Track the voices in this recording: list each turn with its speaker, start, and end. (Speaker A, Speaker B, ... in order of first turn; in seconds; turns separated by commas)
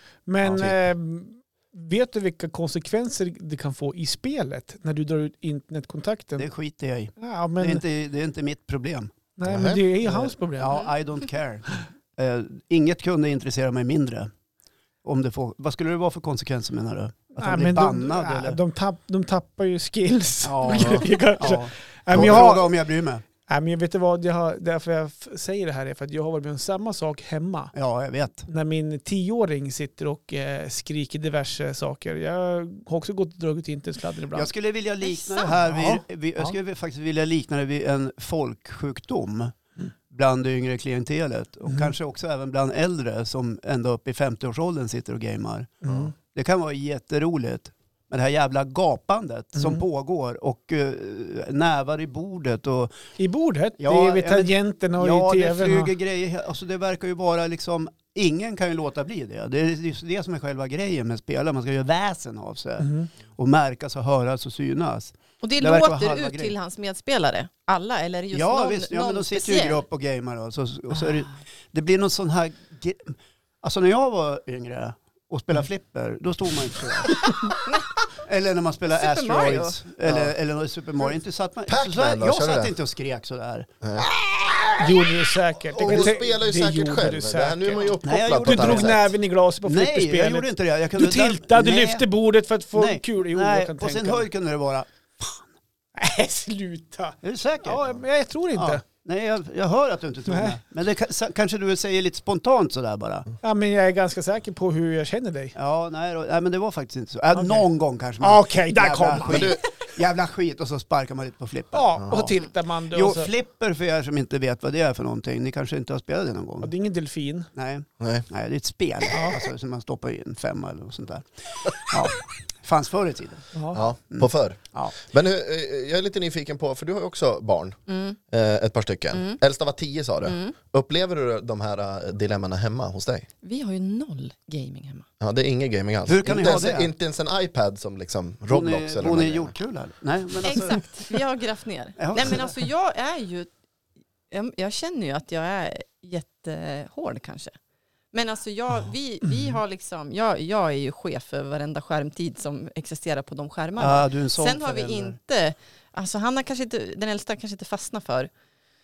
Speaker A: 0.3-6.5, Speaker B: 0.5-0.8, Speaker C: 6.4-9.1, Speaker A: 7.2-7.8, Speaker A: 9.4-10.9, Speaker B: 9.5-9.8, Speaker C: 10.0-14.3, Speaker C: 15.0-18.6, Speaker A: 17.4-22.7, Speaker C: 20.4-23.2, Speaker B: 20.7-21.0, Speaker A: 23.4-27.7, Speaker C: 27.7-28.5, Speaker A: 28.5-34.5, Speaker C: 34.3-39.5, Speaker D: 35.1-35.5, Speaker A: 35.7-36.5, Speaker C: 40.1-45.7, Speaker A: 45.8-46.1, Speaker B: 45.9-46.1, Speaker C: 46.3-53.0, Speaker A: 49.6-49.8, Speaker A: 53.2-55.9, Speaker C: 53.8-66.5, Speaker A: 62.8-63.1, Speaker D: 65.4-69.8, Speaker C: 68.3-77.2, Speaker C: 78.2-85.0, Speaker D: 78.9-79.8, Speaker B: 80.0-80.3, Speaker B: 81.7-82.7, Speaker B: 83.8-84.1, Speaker A: 84.8-94.3, Speaker C: 85.7-86.2, Speaker B: 85.8-89.1, Speaker C: 88.0-89.0, Speaker C: 89.6-92.1, Speaker C: 92.7-95.5, Speaker A: 96.0-98.8, Speaker C: 97.2-98.0, Speaker C: 98.5-103.3, Speaker A: 100.3-100.6, Speaker A: 103.4-105.5, Speaker C: 105.5-116.7, Speaker A: 107.3-107.7, Speaker A: 108.2-109.6, Speaker B: 109.2-109.6, Speaker A: 111.7-113.3, Speaker A: 116.6-117.5, Speaker C: 117.5-123.5, Speaker B: 118.0-118.3, Speaker A: 119.1-119.5, Speaker A: 123.5-123.8, Speaker B: 123.7-127.8, Speaker C: 124.1-125.0, Speaker D: 127.9-128.2, Speaker B: 128.3-133.3, Speaker D: 129.1-129.4, Speaker D: 130.2-130.6, Speaker D: 133.4-135.1, Speaker B: 135.2-139.5, Speaker C: 136.1-136.9, Speaker C: 138.5-140.9, Speaker D: 140.4-143.5, Speaker C: 142.0-142.5, Speaker D: 144.3-147.5, Speaker D: 148.1-158.3, Speaker A: 149.3-149.6, Speaker C: 153.8-155.2